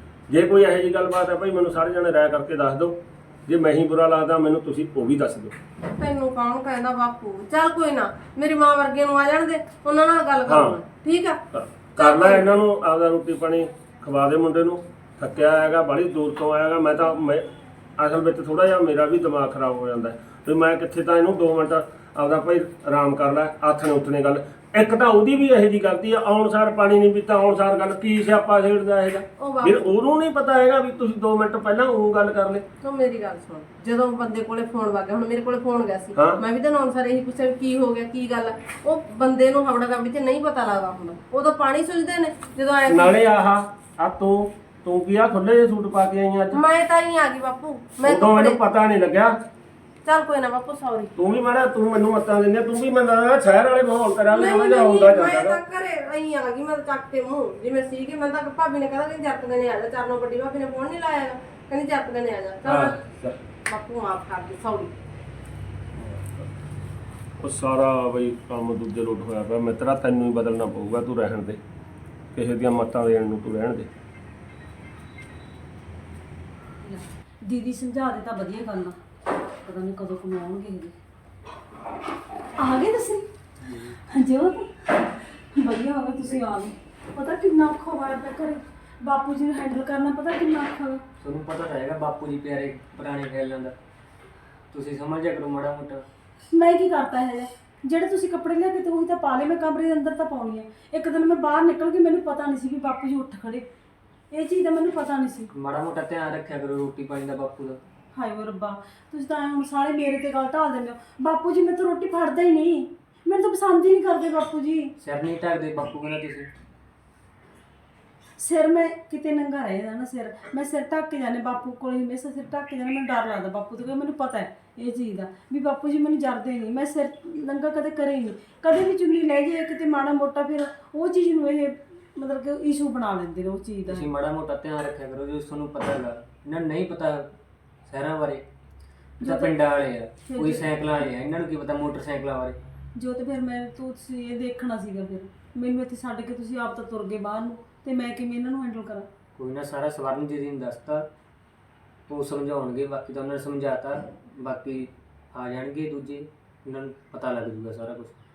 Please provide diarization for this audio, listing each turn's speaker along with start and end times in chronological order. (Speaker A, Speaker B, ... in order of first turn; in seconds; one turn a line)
Speaker A: 0.3-5.5
Speaker B: 6.0-11.4
Speaker A: 10.4-10.8
Speaker A: 11.5-17.4
Speaker B: 12.0-12.5
Speaker A: 18.0-32.6
Speaker B: 29.4-30.0
Speaker B: 32.8-43.2
Speaker A: 42.9-46.6
Speaker B: 46.5-48.6
Speaker A: 48.0-49.3
Speaker B: 50.0-51.1
Speaker A: 51.2-55.6
Speaker B: 54.3-63.0
Speaker A: 62.6-63.4
Speaker B: 63.7-64.9
Speaker A: 66.0-66.4
Speaker A: 67.4-71.6
Speaker A: 72.3-73.9
Speaker C: 76.8-79.0
Speaker C: 79.6-80.9
Speaker C: 82.6-83.2
Speaker D: 83.6-84.0
Speaker C: 84.0-91.0
Speaker D: 91.2-93.7
Speaker D: 94.7-96.0
Speaker C: 96.5-103.7
Speaker C: 104.3-105.5
Speaker D: 105.5-107.8
Speaker C: 108.1-114.9
Speaker D: 115.0-116.5
Speaker C: 118.4-134.1
Speaker D: 133.9-137.3
Speaker D: 137.9-138.4
Speaker C: 139.2-139.5
Speaker D: 139.2-142.6
Speaker C: 140.2-140.7
Speaker C: 142.9-149.1
Speaker D: 149.3-151.1
Speaker D: 152.1-158.1